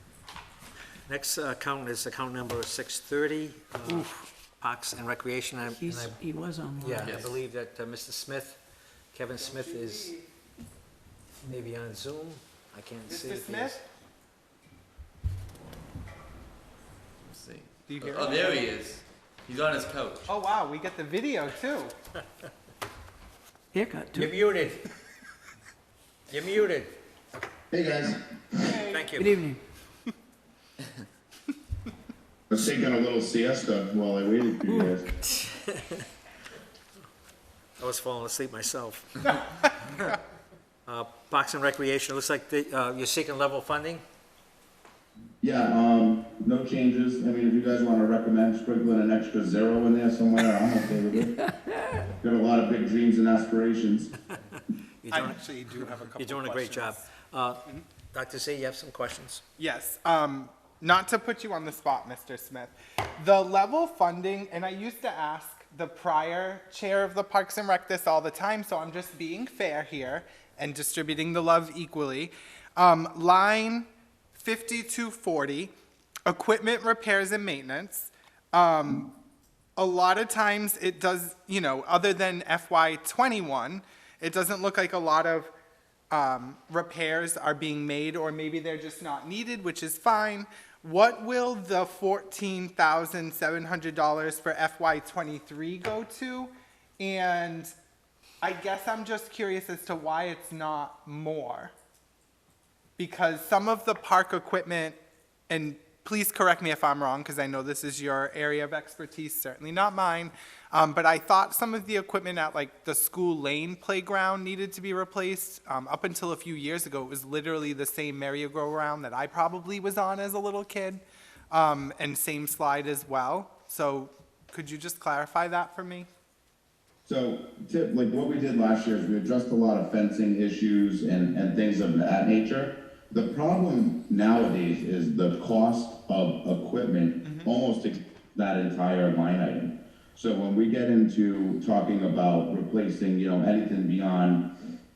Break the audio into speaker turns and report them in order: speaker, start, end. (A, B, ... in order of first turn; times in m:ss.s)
0:01.1-0:10.2 A
0:05.8-0:07.3 B
0:07.0-0:07.4 C
0:09.4-0:10.2 D
0:11.4-0:13.8 A
0:13.1-0:13.8 D
0:17.2-0:20.3 C
0:17.9-0:18.8 D
0:20.3-0:21.9 D
0:23.7-0:24.4 B
0:24.1-0:24.9 A
0:26.3-0:27.0 A
0:27.7-0:28.8 E
0:28.6-0:29.1 D
0:28.9-0:29.3 A
0:29.2-0:29.6 B
0:32.5-0:35.1 E
0:35.2-0:36.1 A
0:37.8-0:39.4 A
0:40.9-0:44.0 A
0:45.4-0:51.5 E
0:52.0-0:54.2 E
0:55.0-0:59.4 A
0:55.1-0:57.1 D
0:59.6-1:15.7 D
1:16.3-1:19.1 D
1:19.8-1:25.5 D
1:26.1-1:37.7 D
1:38.4-1:41.7 D
1:43.0-1:45.0 D
1:45.5-2:06.1 D
2:07.0-2:24.5 E